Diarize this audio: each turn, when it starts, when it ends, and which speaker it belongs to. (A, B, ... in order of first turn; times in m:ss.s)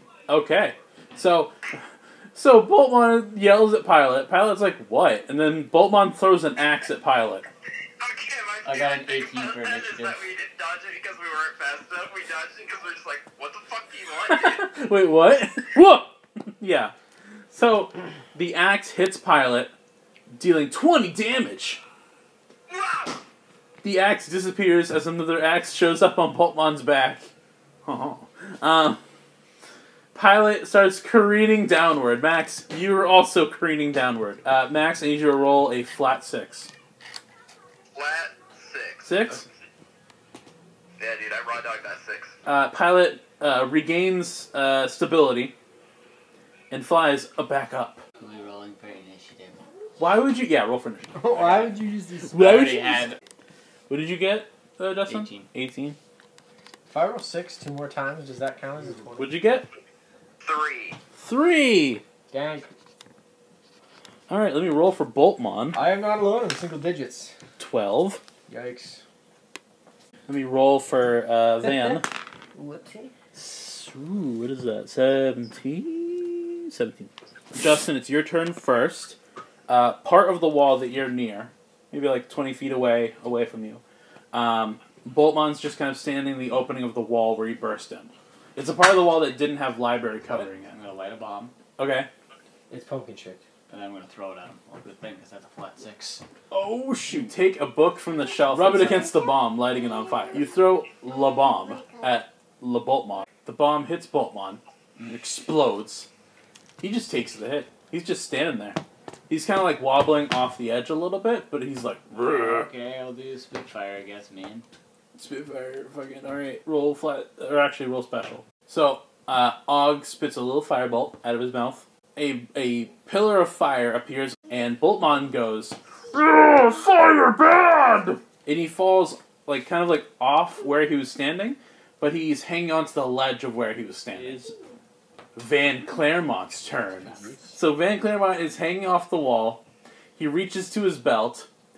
0:00.3-0:01.5 A
0:02.3-0:07.5 A
0:08.0-0:14.7 B
0:08.6-0:10.2 C
0:14.2-0:16.9 A
0:17.5-0:19.7 A
0:20.3-0:21.8 A
0:22.7-0:23.2 B
0:23.8-0:27.3 A
0:27.8-0:29.0 A
0:30.1-0:36.7 A
0:37.9-0:39.4 B
0:39.0-0:39.4 A
0:41.0-0:42.3 B
0:42.4-0:45.5 A
0:46.7-0:48.0 A
0:48.2-0:49.6 C
0:50.0-0:51.2 A
0:51.1-0:52.7 D
0:51.3-0:51.7 C
0:52.3-0:53.2 C
0:52.3-0:53.1 A
0:53.9-0:56.0 A
0:55.1-0:55.5 C
0:56.9-0:59.3 D
0:59.2-0:59.7 A
1:00.4-1:01.0 B
1:01.2-1:02.0 A
1:02.3-1:02.7 D
1:04.3-1:05.8 A
1:05.7-1:07.3 D
1:07.6-1:08.2 A
1:08.5-1:09.0 D
1:10.3-1:12.1 A
1:12.5-1:13.2 D
1:13.3-1:19.2 A
1:19.7-1:23.8 A
1:24.3-1:30.7 A
1:30.3-1:31.5 C
1:31.8-1:32.1 A
1:32.7-1:33.4 D
1:33.7-1:36.2 C
1:36.5-1:46.1 A
1:38.5-1:39.0 C
1:46.8-1:52.7 A
1:52.2-1:54.6 C
1:55.2-2:14.5 A
2:14.1-2:14.4 C
2:15.3-2:19.6 A
2:17.0-2:17.5 C
2:17.1-2:17.5 D
2:20.2-2:21.5 A